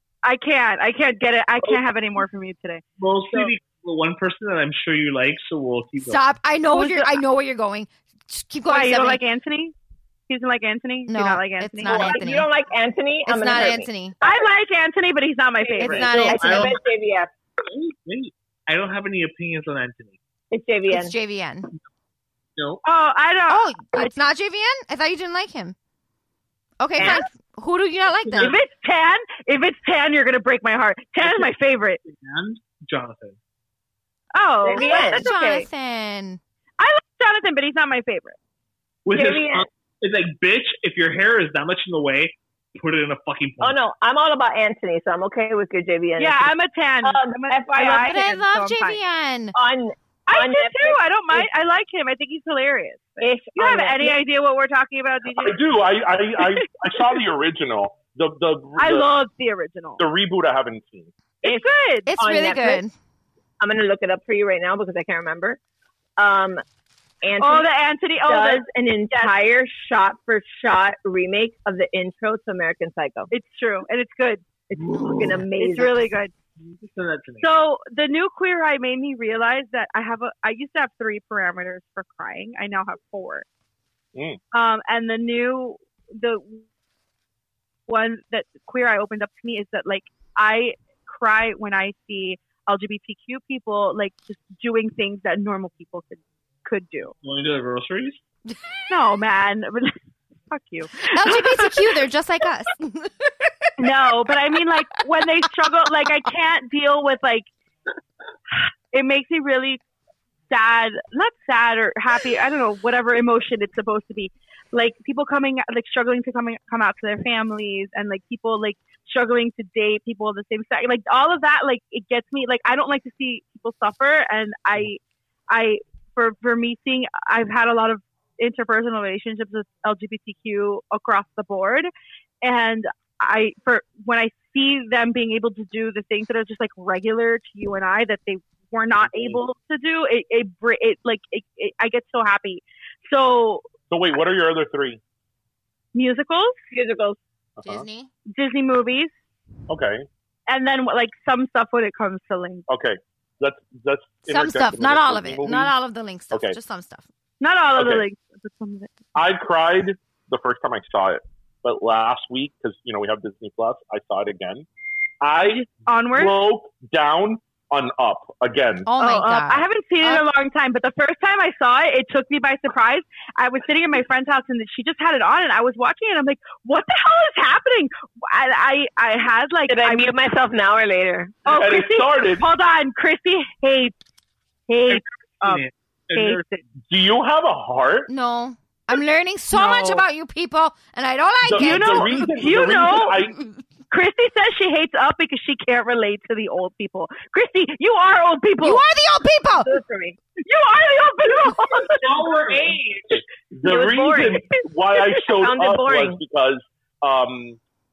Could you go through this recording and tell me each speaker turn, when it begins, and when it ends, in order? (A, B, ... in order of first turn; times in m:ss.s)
0:00.2-0:02.8 A
0:03.0-0:06.3 B
0:06.0-0:09.2 C
0:06.7-0:07.2 A
0:08.6-0:09.7 A
0:10.3-0:12.3 A
0:11.1-0:12.5 C
0:11.8-0:14.5 D
0:13.3-0:14.2 C
0:14.2-0:16.4 A
0:15.6-0:17.3 D
0:15.8-0:16.8 C
0:16.0-0:16.8 B
0:17.6-0:20.2 B
0:20.5-0:21.1 D
0:20.9-0:21.7 C
0:22.6-0:22.8 B
0:22.8-0:24.2 A
0:23.5-0:25.7 C
0:26.8-0:28.6 C
0:27.0-0:27.2 D
0:28.2-0:28.6 B
0:28.4-0:32.0 A
0:31.2-0:33.4 B
0:34.3-0:35.7 A
0:34.6-0:35.2 D
0:34.8-0:36.4 C
0:36.8-0:38.4 A
0:39.0-0:43.8 B
0:39.1-0:39.7 D
0:43.6-0:48.2 D
0:46.2-0:49.0 A
0:47.8-0:49.6 C
0:49.5-0:51.5 D
0:50.3-0:55.6 A
0:53.2-0:54.2 D
0:55.3-0:59.1 E
0:56.4-0:56.6 A
0:58.8-1:00.0 A
1:00.0-1:01.1 E
1:01.4-1:02.1 A
1:02.0-1:02.9 C
1:02.2-1:02.8 D
1:03.6-1:05.6 D
1:06.2-1:06.6 D
1:07.2-1:07.7 D
1:07.4-1:09.3 A
1:08.2-1:13.3 D
1:13.3-1:14.4 A
1:14.7-1:16.0 D
1:14.7-1:15.4 B
1:14.9-1:15.4 C
1:15.5-1:16.3 A
1:16.6-1:17.5 B
1:17.4-1:23.4 A
1:24.1-1:24.4 E
1:24.5-1:26.6 A
1:27.9-1:37.1 A
1:37.2-1:38.2 B
1:38.9-1:40.0 A
1:40.5-1:41.9 A
1:41.1-1:43.3 C
1:43.8-1:47.5 A
1:48.5-1:49.8 A
1:50.5-2:11.9 A
2:12.4-2:23.6 A
2:19.0-2:19.4 E
2:23.9-2:25.0 E
2:25.9-2:26.5 A
2:26.7-2:27.2 D
2:27.6-2:27.8 E
2:27.6-2:28.1 C
2:28.3-2:29.1 A
2:29.7-2:30.0 E
2:30.5-2:32.6 A
2:32.7-2:35.7 E
2:34.3-2:37.0 C
2:36.3-2:36.6 E
2:37.4-2:38.9 A
2:37.8-2:38.0 E
2:39.1-2:44.6 E
2:45.2-2:48.9 E
2:45.4-2:46.3 A
2:48.9-2:50.2 C
2:49.0-3:00.1 A
2:59.7-3:01.4 D
3:01.4-3:03.9 A
3:01.5-3:02.5 E
3:04.7-3:06.6 A
3:04.9-3:06.4 B
3:06.9-3:08.1 E
3:08.1-3:12.3 C
3:09.5-3:10.0 A
3:11.4-3:13.4 E
3:11.6-3:13.2 A
3:13.9-3:18.8 A
3:18.6-3:19.7 C
3:19.5-3:20.2 D
3:20.4-3:22.2 A
3:21.9-3:23.2 B
3:23.2-3:27.6 E
3:23.6-3:24.5 D
3:25.1-3:26.2 D